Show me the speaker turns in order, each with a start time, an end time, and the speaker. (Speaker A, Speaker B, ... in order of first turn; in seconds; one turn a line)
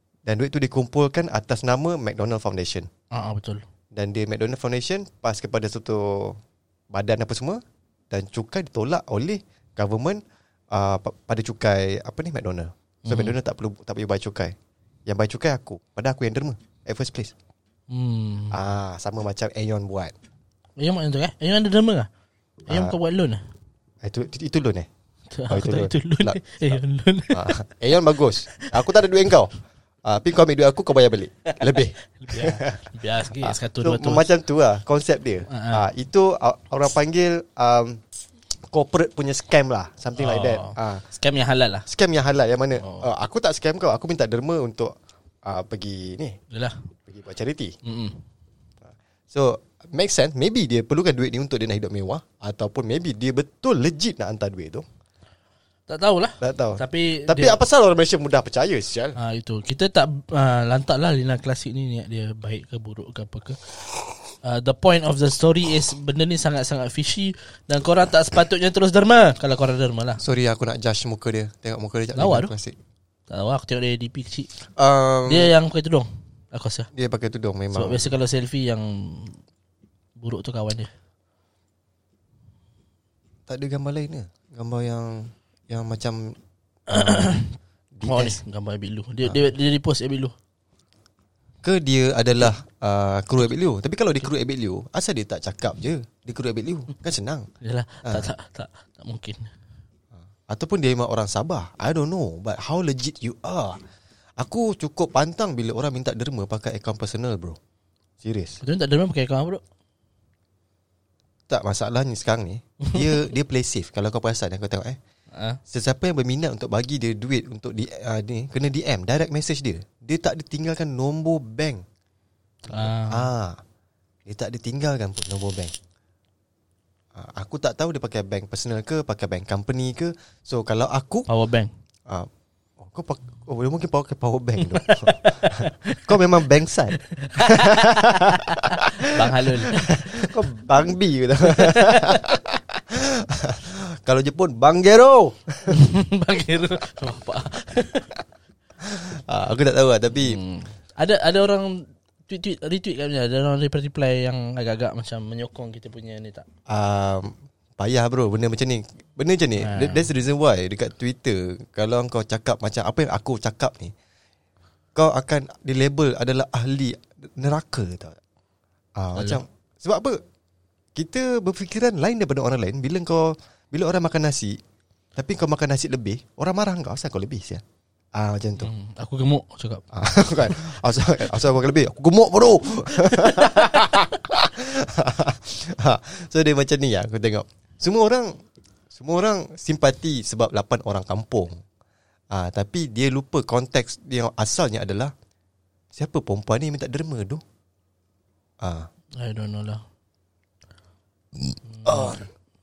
Speaker A: 0.3-2.9
Speaker B: 3.1-3.6
Speaker A: 3.9-6.4
Speaker A: 6.9-14.6
Speaker B: 13.1-13.4
Speaker A: 15.1-17.3
Speaker B: 17.9-18.6
Speaker A: 18.5-20.1
Speaker B: 20.8-22.1
Speaker B: 22.6-23.4
Speaker A: 22.7-22.9
Speaker A: 24.0-24.9
Speaker B: 25.3-27.6
Speaker A: 25.5-26.8
Speaker A: 27.3-29.5
Speaker A: 30.0-32.8
Speaker B: 31.5-34.3
Speaker A: 33.3-38.0
Speaker B: 35.5-35.9
Speaker A: 38.7-41.0
Speaker B: 40.2-41.9
Speaker A: 41.9-46.4
Speaker B: 42.8-43.1
Speaker B: 46.5-46.8
Speaker A: 47.1-47.8
Speaker B: 47.9-48.2
Speaker A: 49.3-54.9
Speaker B: 55.9-57.6
Speaker A: 56.4-59.2
Speaker B: 59.1-63.7
Speaker B: 64.4-70.2
Speaker A: 70.2-72.8
Speaker B: 72.1-72.5
Speaker B: 73.3-74.5
Speaker A: 74.7-75.5
Speaker B: 75.3-76.9
Speaker A: 76.9-78.1
Speaker B: 77.7-79.4
Speaker B: 80.2-80.9
Speaker A: 83.5-86.4
Speaker B: 86.9-90.3
Speaker A: 88.0-88.4
Speaker A: 91.6-97.5
Speaker B: 97.6-99.5
Speaker A: 100.5-103.8
Speaker A: 104.4-107.6
Speaker A: 108.2-108.6
Speaker B: 108.6-109.6
Speaker A: 111.5-115.0
Speaker B: 115.3-115.6
Speaker A: 115.7-121.8
Speaker B: 122.7-123.3
Speaker A: 122.7-123.6
Speaker A: 124.3-125.7
Speaker A: 127.1-131.3
Speaker B: 131.3-131.7
Speaker A: 132.1-145.8
Speaker B: 134.7-136.1
Speaker B: 137.1-140.3
Speaker B: 141.5-142.2
Speaker B: 145.7-148.1
Speaker A: 148.8-150.4
Speaker B: 150.2-156.4
Speaker A: 156.7-163.9
Speaker B: 159.6-160.1
Speaker A: 164.9-168.2
Speaker A: 168.9-170.2
Speaker B: 169.2-169.4
Speaker A: 170.9-174.6
Speaker A: 175.2-177.6
Speaker A: 178.1-178.7
Speaker B: 178.6-179.8
Speaker A: 179.9-188.4
Speaker B: 183.2-183.7
Speaker A: 188.9-191.6
Speaker A: 192.3-195.1
Speaker A: 195.9-197.4
Speaker A: 198.6-198.9
Speaker B: 199.2-199.8
Speaker A: 201.4-202.2
Speaker B: 201.7-202.2